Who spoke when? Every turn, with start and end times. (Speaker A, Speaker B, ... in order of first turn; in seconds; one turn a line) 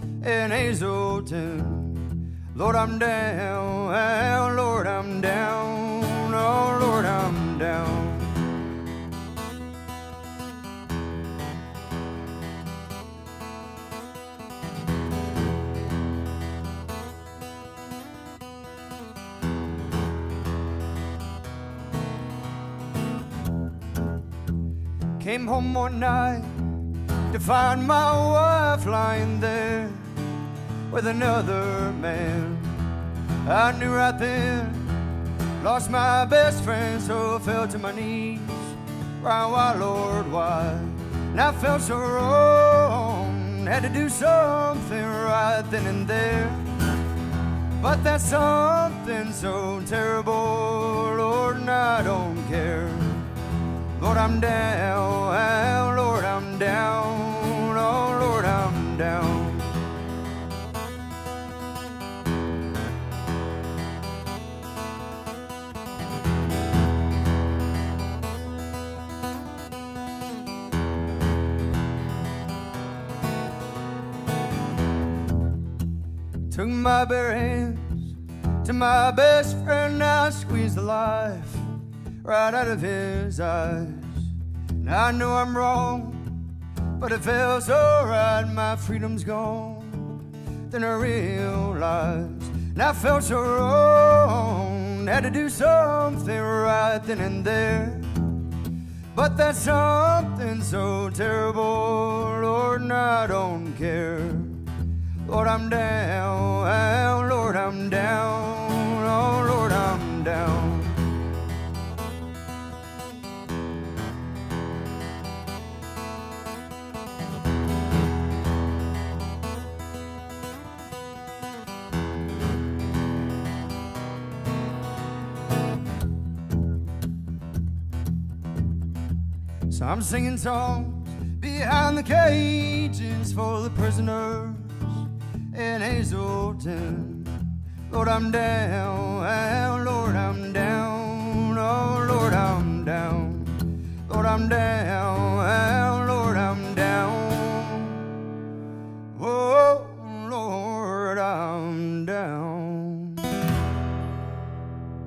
Speaker A: 0.2-8.5
Speaker A: 25.2-30.2
Speaker A: 30.9-46.8
Speaker A: 47.8-53.4
Speaker A: 54.0-59.8
Speaker A: 76.5-86.5
Speaker A: 87.0-98.4
Speaker A: 99.1-104.7
Speaker A: 105.2-111.0
Speaker A: 129.7-148.2
Speaker A: 149.1-153.4